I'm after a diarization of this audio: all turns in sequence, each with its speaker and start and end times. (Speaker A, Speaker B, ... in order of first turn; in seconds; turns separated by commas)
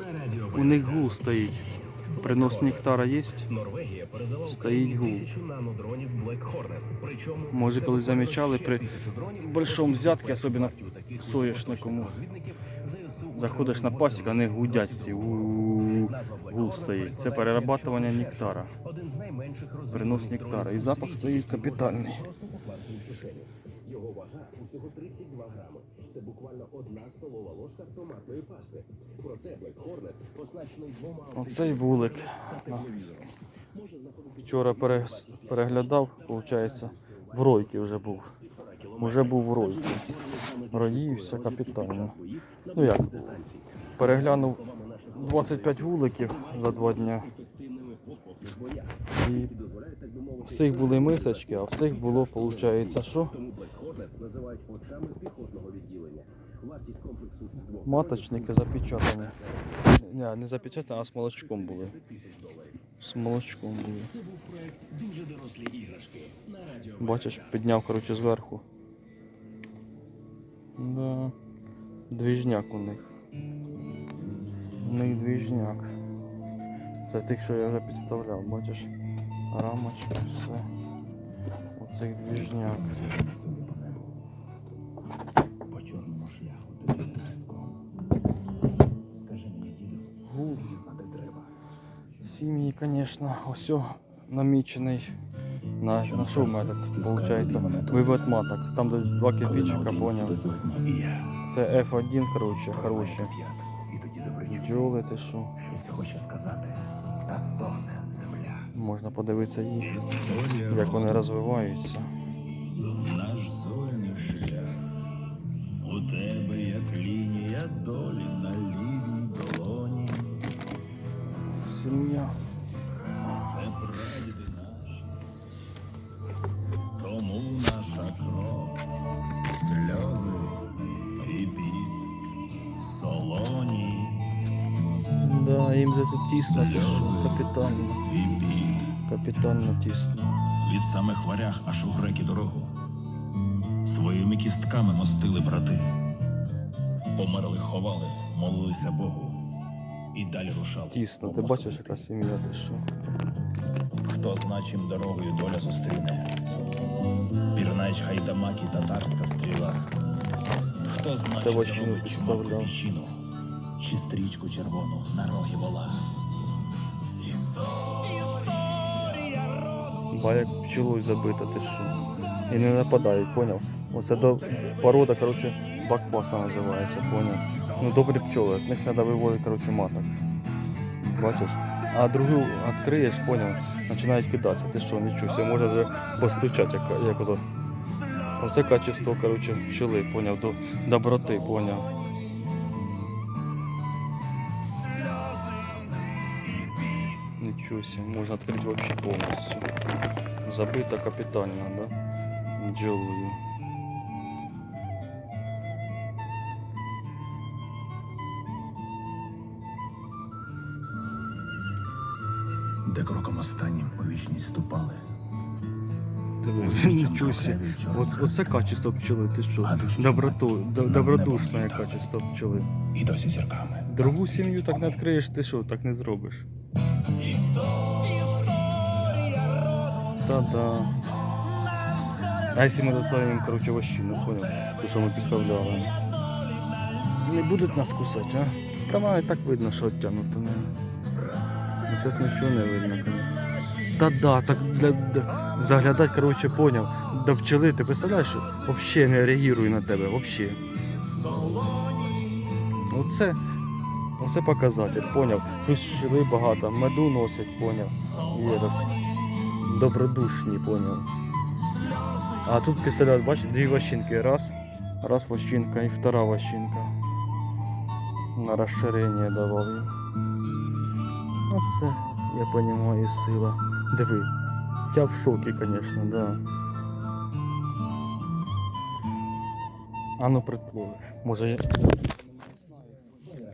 Speaker A: 0.5-3.5, Speaker A: 4.4-5.4, Speaker B: 5.4-7.3, Speaker A: 7.5-12.3, Speaker C: 9.7-10.1, Speaker B: 11.6-14.2, Speaker A: 13.3-18.8, Speaker B: 14.9-15.2, Speaker B: 16.2-18.4, Speaker B: 19.1-19.7, Speaker A: 19.9-22.3, Speaker B: 20.4-21.6, Speaker B: 22.4-23.4, Speaker C: 24.1-28.8, Speaker C: 29.3-30.9, Speaker A: 31.3-33.3, Speaker A: 34.4-38.3, Speaker A: 39.0-40.2, Speaker A: 40.7-42.2, Speaker A: 42.7-47.3, Speaker C: 46.7-47.0, Speaker C: 47.7-48.1, Speaker A: 49.2-49.5, Speaker A: 50.4-53.4, Speaker C: 54.0-57.4, Speaker A: 57.7-62.0, Speaker A: 63.0-64.1, Speaker B: 64.7-65.8, Speaker C: 64.8-66.5, Speaker A: 67.0-68.6, Speaker A: 70.8-71.3, Speaker A: 72.1-73.0, Speaker A: 74.8-75.9, Speaker A: 77.0-78.9, Speaker A: 79.5-80.7, Speaker A: 81.8-82.8, Speaker B: 82.3-84.2, Speaker B: 85.7-87.9, Speaker B: 89.0-91.5, Speaker A: 90.2-90.7, Speaker A: 92.2-95.2, Speaker A: 95.8-100.4, Speaker B: 96.0-98.3, Speaker B: 99.4-101.4, Speaker A: 101.4-103.3, Speaker B: 102.7-104.9, Speaker A: 104.5-105.5, Speaker B: 105.6-108.7, Speaker A: 108.7-110.0, Speaker B: 109.8-111.3, Speaker A: 110.6-112.1, Speaker B: 112.6-115.0, Speaker B: 115.7-120.5, Speaker A: 121.6-122.4, Speaker B: 123.2-125.2, Speaker B: 127.0-132.1, Speaker B: 132.7-134.3, Speaker A: 135.2-138.0, Speaker B: 136.4-138.9, Speaker A: 139.0-140.4, Speaker B: 140.4-142.8, Speaker B: 143.8-146.0, Speaker B: 147.1-149.5, Speaker B: 150.1-152.0, Speaker A: 150.9-152.9, Speaker B: 154.0-156.4, Speaker B: 157.3-166.3, Speaker A: 161.3-162.8, Speaker B: 167.1-169.8, Speaker A: 170.1-180.2, Speaker A: 181.0-187.4, Speaker A: 188.4-191.9, Speaker A: 197.4-199.7, Speaker A: 200.4-201.9, Speaker A: 202.6-203.4, Speaker B: 212.8-215.0, Speaker A: 216.4-222.7, Speaker B: 216.6-218.7, Speaker B: 219.6-222.1, Speaker B: 222.9-225.0, Speaker A: 223.9-226.5, Speaker B: 227.4-228.6, Speaker A: 230.2-230.9, Speaker A: 232.5-236.0, Speaker A: 237.1-240.7, Speaker A: 241.8-243.3, Speaker A: 243.9-250.6, Speaker A: 252.9-253.4, Speaker A: 254.2-258.9, Speaker A: 259.6-261.1, Speaker A: 262.4-266.9, Speaker A: 268.3-269.9, Speaker A: 271.5-274.3, Speaker A: 274.9-276.4, Speaker A: 280.2-281.9